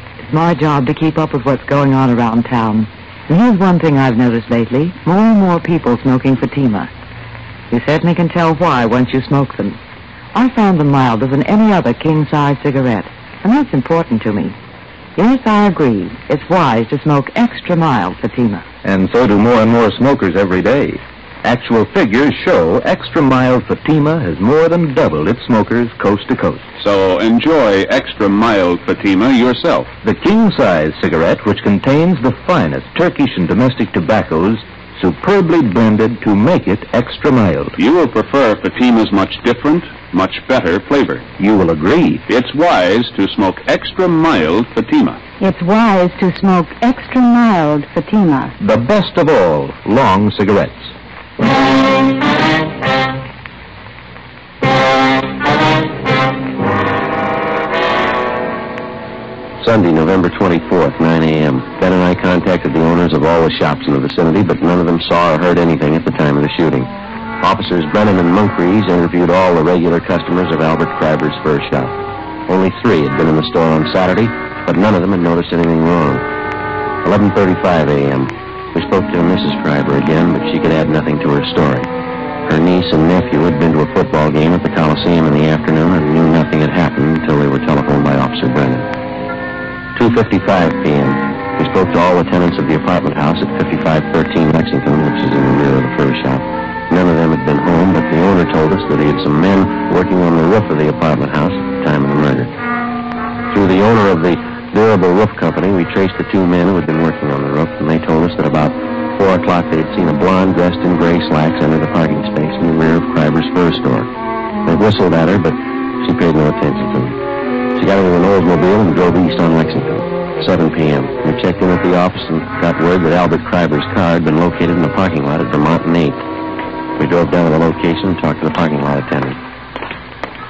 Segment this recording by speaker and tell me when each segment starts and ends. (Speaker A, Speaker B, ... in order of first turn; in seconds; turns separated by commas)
Speaker A: 0.2-6.9, Speaker A: 7.7-9.8, Speaker A: 10.3-14.6, Speaker A: 15.2-18.6, Speaker B: 18.8-26.6, Speaker C: 26.8-29.9, Speaker B: 30.0-37.8, Speaker C: 37.8-41.2, Speaker B: 41.4-42.2, Speaker C: 42.3-45.2, Speaker D: 45.4-48.5, Speaker B: 48.6-50.9, Speaker E: 59.6-71.9, Speaker E: 72.5-76.2, Speaker E: 77.0-81.9, Speaker E: 82.4-88.9, Speaker E: 89.9-102.5, Speaker E: 103.5-114.1, Speaker E: 114.6-117.2, Speaker E: 117.8-126.2, Speaker E: 127.0-129.4